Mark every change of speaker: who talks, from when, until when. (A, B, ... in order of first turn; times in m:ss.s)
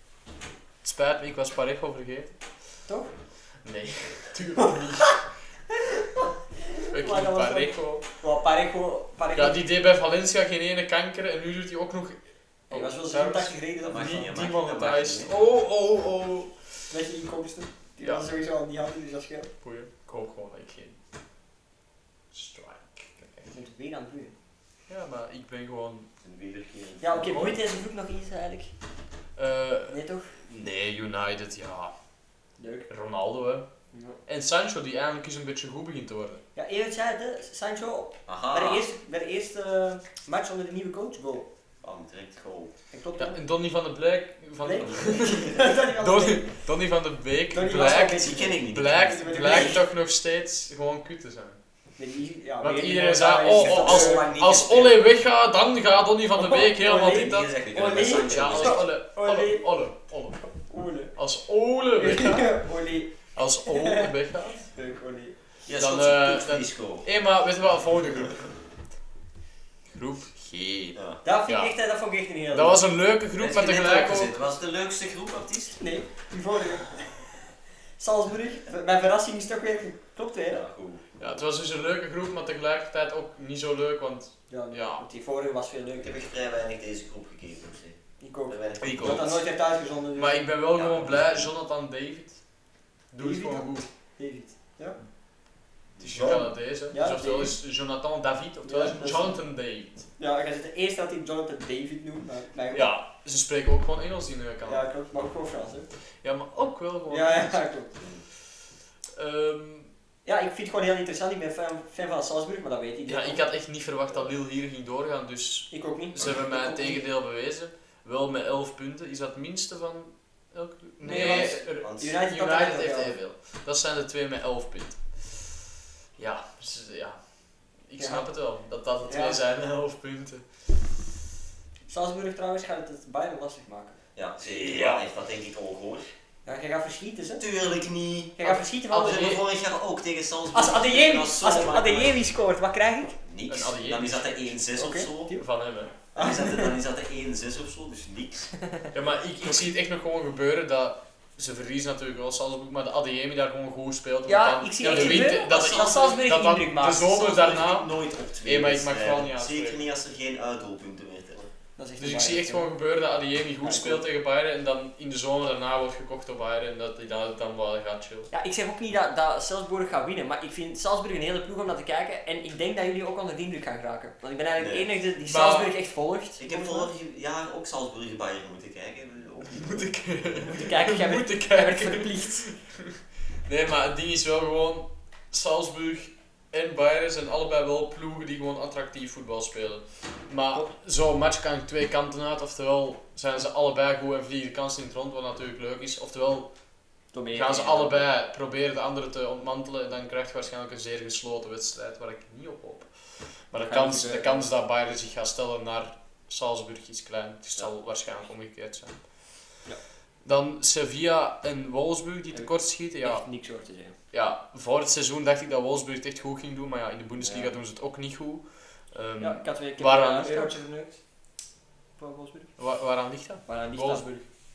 0:00.8-0:02.3 A
0:02.9-0:03.1 B
0:03.6-0:05.3 A
0:05.7-0:09.6 B
0:06.9-0:08.1 A
0:09.4-0:12.2 A
0:12.7-0:14.3 B
0:12.7-0:16.5 A
0:13.8-0:15.3 C
0:16.9-0:19.5 B
0:18.0-0:18.3 A
0:19.6-0:21.0 A
0:22.3-0:23.5 A
0:23.5-0:24.3 B
0:24.9-0:26.1 A
0:26.2-0:27.5 C
0:27.0-0:28.7 B
0:29.4-0:31.9 A
0:29.9-0:30.3 B
0:32.6-0:32.9 B
0:32.9-0:33.7 A
0:33.9-0:34.2 B
0:34.3-0:36.4 A
0:36.6-0:41.5 B
0:38.3-0:38.8 C
0:41.8-0:42.7 C
0:42.9-0:43.4 B
0:43.2-0:51.6 A
0:44.6-0:46.5 B
0:47.5-0:49.8 B
0:48.0-0:49.8 C
0:52.0-0:54.4 B
0:52.6-1:00.6 A
0:53.6-0:55.0 C
0:56.3-0:59.6 B
0:57.0-0:58.9 C
1:00.7-1:01.1 B
1:01.2-1:02.6 A
1:02.0-1:04.1 B
1:03.3-1:04.6 A
1:04.6-1:05.4 B
1:05.7-1:07.1 C
1:05.7-1:08.5 A
1:09.9-1:11.7 A
1:11.2-1:12.8 B
1:12.5-1:14.3 A
1:13.4-1:15.8 C
1:15.8-1:17.1 B
1:18.0-1:20.6 B
1:20.5-1:21.1 C
1:21.2-1:25.0 A
1:24.5-1:26.2 B
1:26.0-1:29.4 C
1:28.2-1:30.4 B
1:28.8-1:29.4 A
1:30.2-1:32.4 A
1:30.8-1:31.5 C
1:33.1-1:33.9 A
1:33.2-1:35.0 B
1:36.0-1:36.5 C
1:36.0-1:40.1 A
1:36.9-1:37.6 B
1:38.6-1:39.4 B
1:40.2-1:42.9 B
1:42.7-1:44.8 A
1:44.6-1:45.9 B
1:46.2-1:47.6 A
1:47.1-1:47.9 B
1:49.2-1:49.9 A
1:50.2-1:53.4 B
1:53.1-2:05.5 A
1:55.7-1:57.0 B
2:01.0-2:03.2 B
2:01.0-2:02.2 C
2:06.2-2:07.2 A
2:07.9-2:10.5 A
2:08.0-2:08.3 B
2:09.1-2:09.4 B
2:11.9-2:14.0 B
2:14.2-2:16.1 C
2:14.4-2:15.0 A
2:16.4-2:17.4 B
2:17.4-2:22.2 C
2:18.4-2:19.3 B
2:18.9-2:19.4 A
2:20.5-2:23.2 B
2:23.2-2:25.4 C
2:23.5-2:24.6 A
2:24.8-2:25.4 B
2:25.3-2:25.9 A
2:26.1-2:26.7 B
2:26.2-2:28.5 C
2:28.9-2:37.9 A
2:34.3-2:37.2 B
2:34.9-2:35.7 C
2:37.1-2:41.5 C
2:38.4-2:39.8 A
2:41.8-2:42.7 B
2:42.0-2:48.3 A
2:43.6-2:44.0 B
2:48.3-2:56.9 B
2:54.6-2:54.9 C
2:55.2-2:55.7 A
2:56.4-2:59.9 C
2:59.6-3:16.5 A
3:00.4-3:02.5 B
3:17.1-3:18.0 B
3:17.3-3:29.0 A
3:23.6-3:24.5 B
3:30.2-3:33.3 A
3:32.3-3:34.0 B
3:34.1-3:40.6 A
3:37.2-3:37.6 B
3:39.2-3:41.0 B
3:42.0-3:42.5 B
3:42.6-3:44.2 A
3:43.5-3:44.1 B